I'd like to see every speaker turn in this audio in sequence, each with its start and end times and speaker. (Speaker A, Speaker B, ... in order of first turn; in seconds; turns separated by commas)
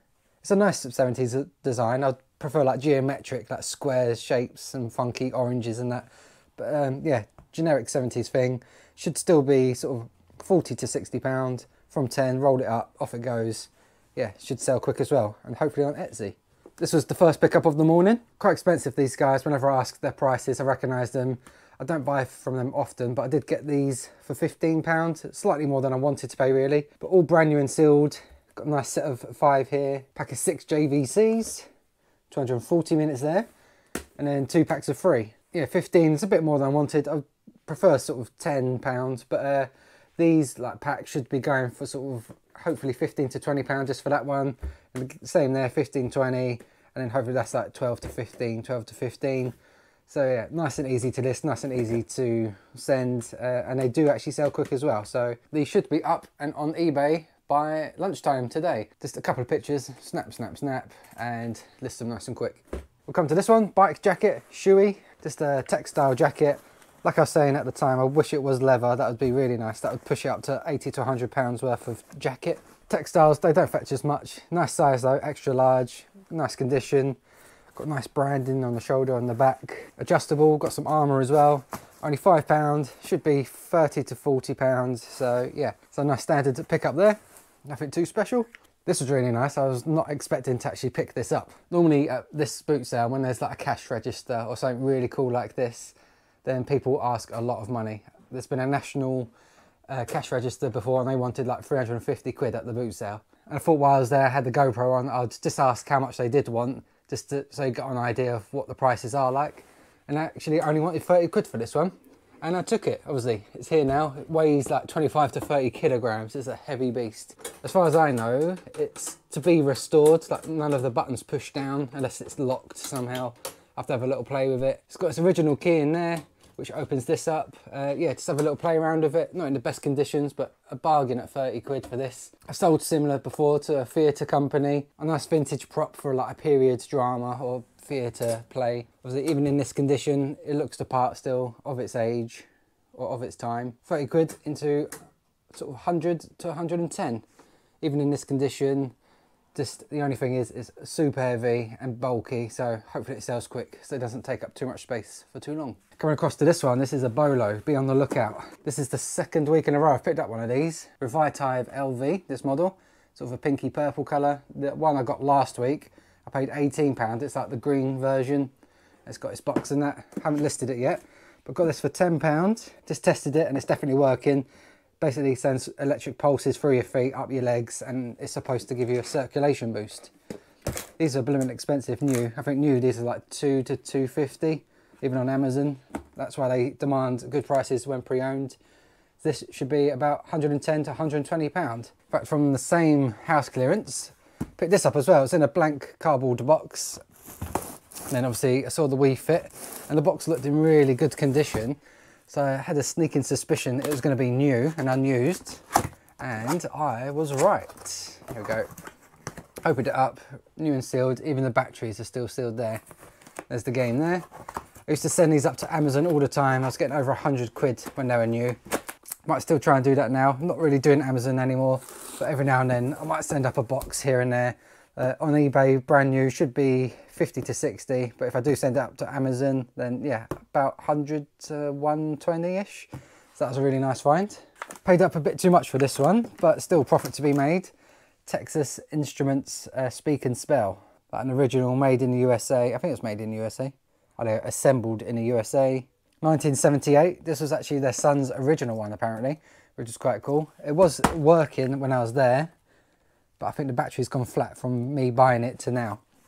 Speaker A: 0.4-31.7, Speaker A: 32.3-33.5, Speaker A: 34.2-49.5, Speaker A: 50.1-77.2, Speaker A: 77.8-99.3, Speaker A: 99.9-144.9, Speaker A: 145.5-147.2, Speaker A: 147.8-148.9, Speaker A: 149.5-168.5, Speaker A: 169.1-174.5, Speaker A: 175.0-180.1, Speaker A: 181.0-188.6, Speaker A: 189.2-197.0, Speaker A: 198.1-205.6, Speaker A: 206.2-208.7, Speaker A: 209.6-212.8, Speaker A: 213.5-214.3, Speaker A: 214.9-218.6, Speaker A: 219.3-237.7, Speaker A: 238.3-252.5, Speaker A: 253.4-256.0